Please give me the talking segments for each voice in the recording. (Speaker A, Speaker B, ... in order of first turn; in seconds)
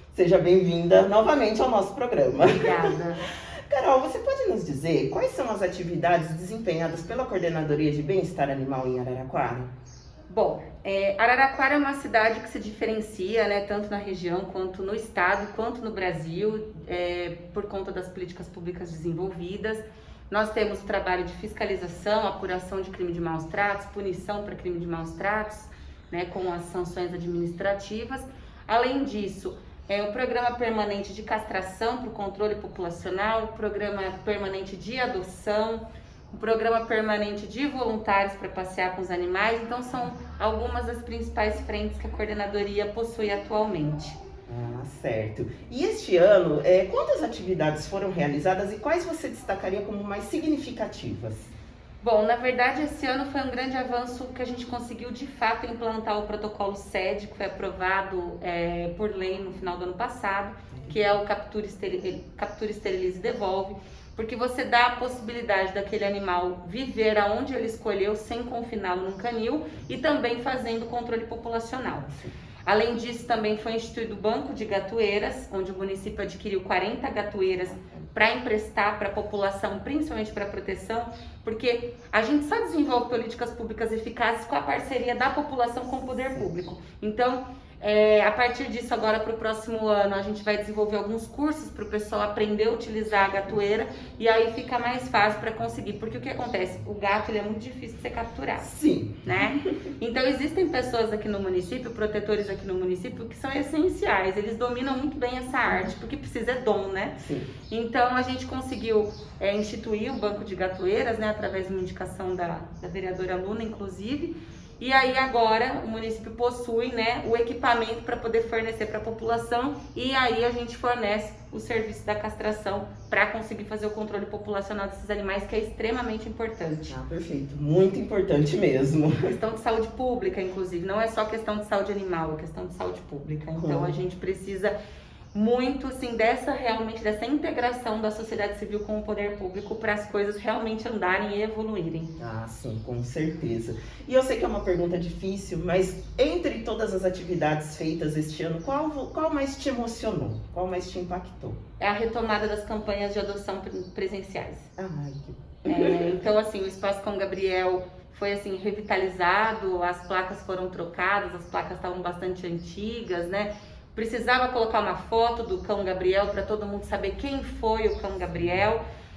Speaker A: 0.1-2.9, 3.7-9.7, 44.5-51.5, 72.0-72.3, 98.6-99.5, 107.2-107.5, 126.9-129.3, 133.6-134.0, 142.2-151.6, 154.8-156.1
Speaker B: 2.4-3.3, 10.3-44.2, 52.0-72.1, 72.6-98.7, 99.2-127.0, 129.2-134.8, 135.3-142.1, 151.8-154.7, 155.7-168.8